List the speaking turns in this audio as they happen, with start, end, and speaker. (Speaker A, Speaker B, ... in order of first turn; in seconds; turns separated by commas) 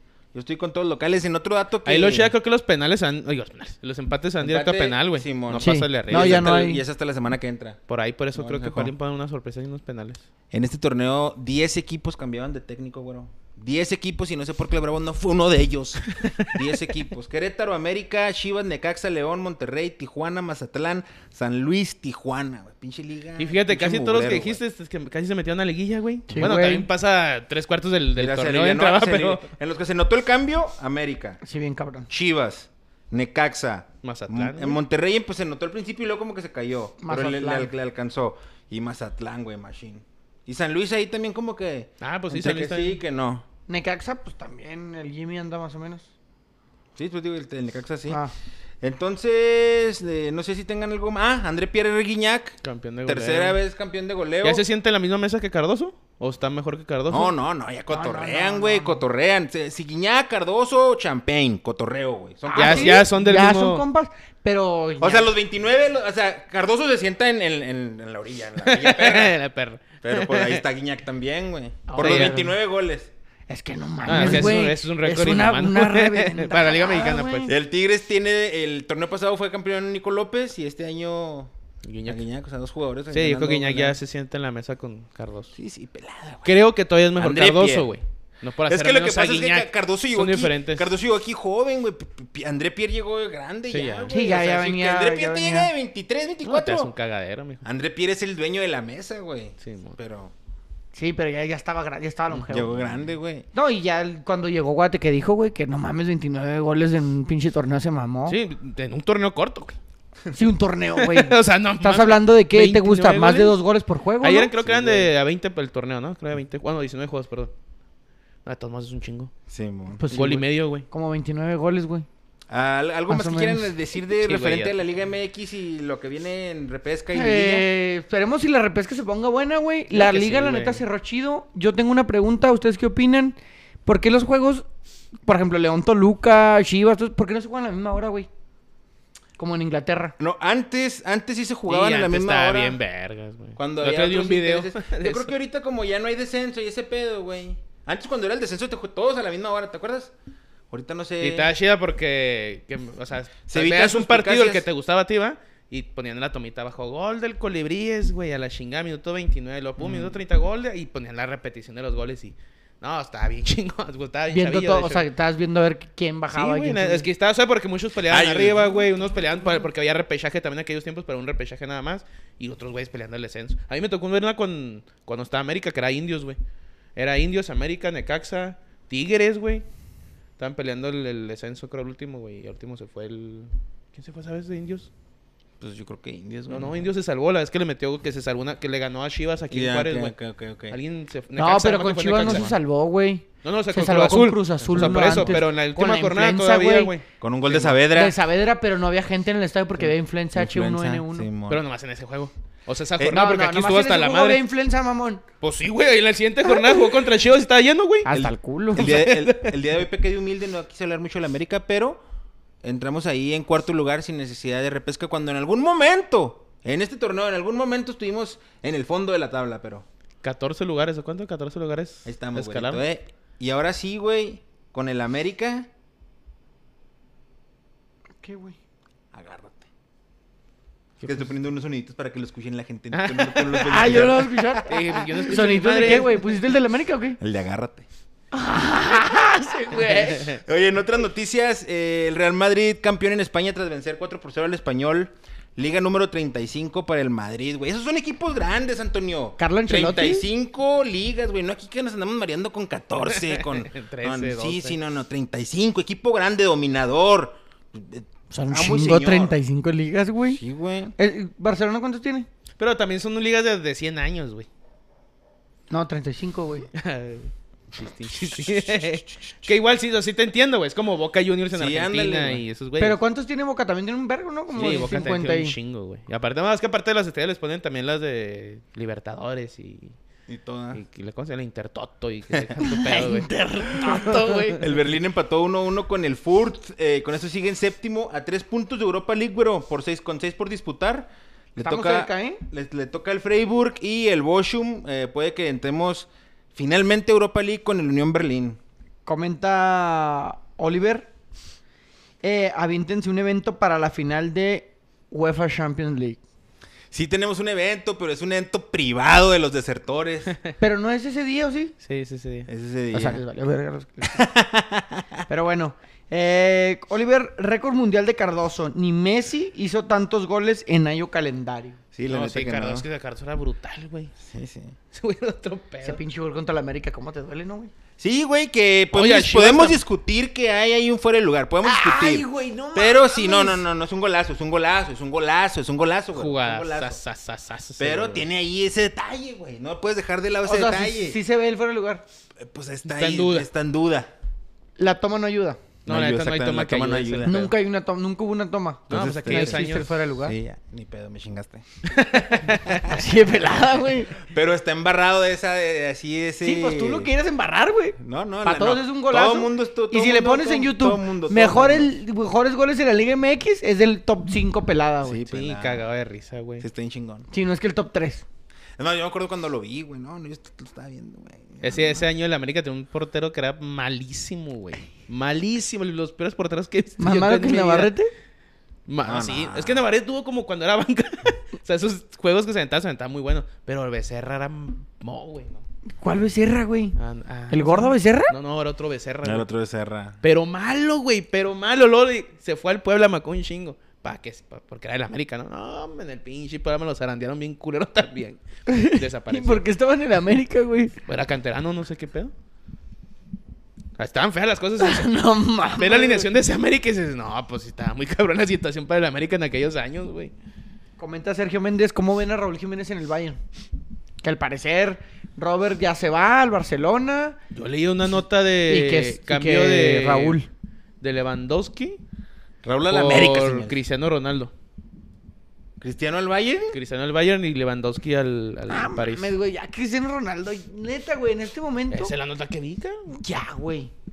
Speaker A: 0.3-2.3, Speaker B: 1.8-6.5, Speaker A: 4.4-7.8, Speaker C: 5.6-6.8, Speaker B: 7.9-10.2, Speaker A: 8.3-8.9, Speaker A: 10.5-24.6, Speaker B: 16.2-16.5, Speaker B: 23.4-29.5, Speaker C: 26.3-26.9, Speaker A: 28.1-31.4, Speaker C: 31.4-32.1, Speaker A: 32.1-43.4, Speaker B: 34.0-34.8, Speaker C: 37.0-37.7, Speaker B: 42.0-43.0, Speaker C: 43.7-46.1, Speaker A: 47.0-48.2, Speaker A: 48.8-54.6, Speaker B: 52.6-53.6, Speaker B: 54.4-57.3, Speaker A: 57.1-63.0, Speaker C: 57.9-59.0, Speaker C: 62.5-65.3, Speaker B: 62.5-63.8, Speaker A: 65.0-69.3, Speaker B: 68.6-70.6, Speaker A: 70.0-73.1, Speaker C: 71.9-72.5, Speaker B: 72.0-72.4, Speaker C: 73.5-77.5, Speaker B: 74.0-77.5, Speaker A: 74.2-74.4, Speaker A: 77.5-81.5, Speaker B: 81.8-82.2, Speaker A: 82.0-84.0, Speaker B: 83.1-85.5, Speaker A: 85.5-86.5, Speaker B: 86.4-90.9, Speaker A: 87.2-87.9, Speaker A: 88.7-96.9, Speaker B: 93.7-94.1, Speaker C: 94.1-95.7, Speaker B: 96.4-97.6, Speaker A: 97.6-100.3, Speaker B: 99.6-100.0, Speaker C: 100.9-103.0, Speaker A: 102.5-103.5, Speaker C: 103.5-108.4, Speaker B: 108.3-109.8, Speaker C: 110.3-114.5, Speaker B: 111.0-113.6, Speaker B: 114.2-117.5, Speaker A: 114.6-115.1, Speaker B: 118.4-119.3, Speaker A: 119.5-120.0, Speaker C: 120.0-122.0, Speaker B: 120.1-120.8, Speaker A: 122.5-127.7, Speaker C: 123.1-123.7, Speaker B: 124.2-124.8, Speaker C: 127.1-134.6, Speaker B: 129.9-130.8, Speaker C: 135.2-138.3, Speaker C: 139.4-140.1, Speaker A: 140.2-142.8, Speaker B: 141.7-145.3, Speaker A: 143.6-150.1, Speaker A: 150.7-151.5, Speaker B: 151.2-165.1, Speaker A: 153.5-154.7, Speaker A: 159.8-160.2, Speaker C: 164.3-167.1, Speaker B: 166.3-176.4, Speaker A: 168.1-168.9, Speaker B: 176.9-179.6, Speaker B: 180.4-184.9, Speaker A: 185.6-186.8, Speaker B: 186.5-190.1, Speaker A: 189.5-190.8, Speaker B: 190.7-192.5, Speaker C: 191.3-196.9, Speaker B: 193.4-197.8, Speaker A: 194.7-195.2, Speaker A: 197.2-198.2, Speaker C: 197.9-201.3, Speaker A: 199.8-201.6, Speaker B: 201.5-204.4, Speaker C: 203.0-205.2, Speaker B: 205.4-208.2, Speaker C: 206.4-207.0, Speaker C: 208.0-208.9, Speaker A: 208.1-212.0, Speaker B: 208.7-209.6, Speaker A: 212.6-219.8, Speaker B: 220.2-222.8, Speaker A: 222.0-225.7, Speaker C: 228.2-228.6, Speaker A: 229.1-229.7, Speaker A: 231.0-235.2, Speaker B: 232.9-236.2, Speaker C: 233.6-237.2, Speaker A: 237.2-237.8, Speaker C: 238.3-240.4, Speaker A: 240.2-259.4, Speaker C: 249.4-250.3, Speaker B: 253.1-254.8, Speaker C: 258.3-260.4, Speaker A: 260.3-260.9, Speaker C: 261.0-262.3, Speaker B: 262.6-264.5, Speaker C: 265.7-266.7, Speaker B: 266.7-273.0, Speaker A: 268.4-269.5, Speaker A: 271.5-272.4, Speaker C: 272.8-275.5, Speaker B: 274.5-279.9, Speaker A: 280.3-280.8, Speaker B: 280.7-284.6, Speaker C: 282.6-284.6, Speaker A: 284.6-298.6, Speaker C: 291.6-292.4, Speaker C: 299.1-301.1, Speaker C: 302.2-306.2, Speaker A: 306.9-310.3, Speaker C: 310.6-311.7, Speaker B: 311.8-312.5, Speaker A: 312.5-313.2, Speaker C: 312.9-314.2, Speaker A: 314.0-315.2, Speaker C: 315.3-321.8, Speaker A: 321.9-322.9, Speaker B: 322.1-324.1, Speaker A: 324.2-324.7, Speaker B: 324.9-326.0, Speaker C: 325.8-327.7, Speaker A: 328.0-337.0, Speaker B: 328.9-329.8, Speaker C: 331.6-333.6, Speaker B: 336.1-338.2, Speaker A: 337.8-341.2, Speaker C: 340.4-342.0, Speaker A: 342.4-344.1, Speaker B: 342.9-343.5, Speaker C: 344.8-345.6, Speaker A: 345.9-347.4, Speaker B: 345.9-347.5, Speaker C: 347.2-350.4, Speaker B: 348.9-350.0, Speaker A: 348.9-353.0, Speaker B: 351.9-352.9, Speaker C: 352.8-354.2, Speaker A: 354.1-357.1, Speaker C: 356.4-365.2, Speaker A: 358.0-361.9, Speaker A: 365.0-365.8, Speaker B: 365.3-366.6, Speaker A: 366.6-367.3, Speaker C: 367.3-368.2, Speaker A: 368.8-372.0, Speaker B: 371.6-377.9, Speaker C: 377.0-378.1, Speaker B: 378.9-385.6, Speaker A: 379.0-379.8, Speaker C: 386.0-386.9, Speaker B: 387.0-389.4, Speaker C: 387.5-388.3, Speaker A: 389.2-390.2, Speaker B: 390.2-399.6, Speaker C: 398.7-401.0, Speaker B: 401.1-402.3, Speaker B: 404.0-405.1, Speaker C: 404.8-406.3, Speaker B: 405.8-410.3, Speaker C: 411.0-413.4, Speaker C: 414.2-417.4, Speaker B: 417.5-420.4, Speaker C: 418.7-420.5, Speaker B: 421.0-422.0, Speaker A: 422.6-423.8, Speaker B: 422.9-424.5, Speaker A: 425.8-426.8, Speaker B: 426.7-429.3, Speaker C: 428.7-432.1, Speaker B: 431.9-433.2, Speaker C: 433.1-433.9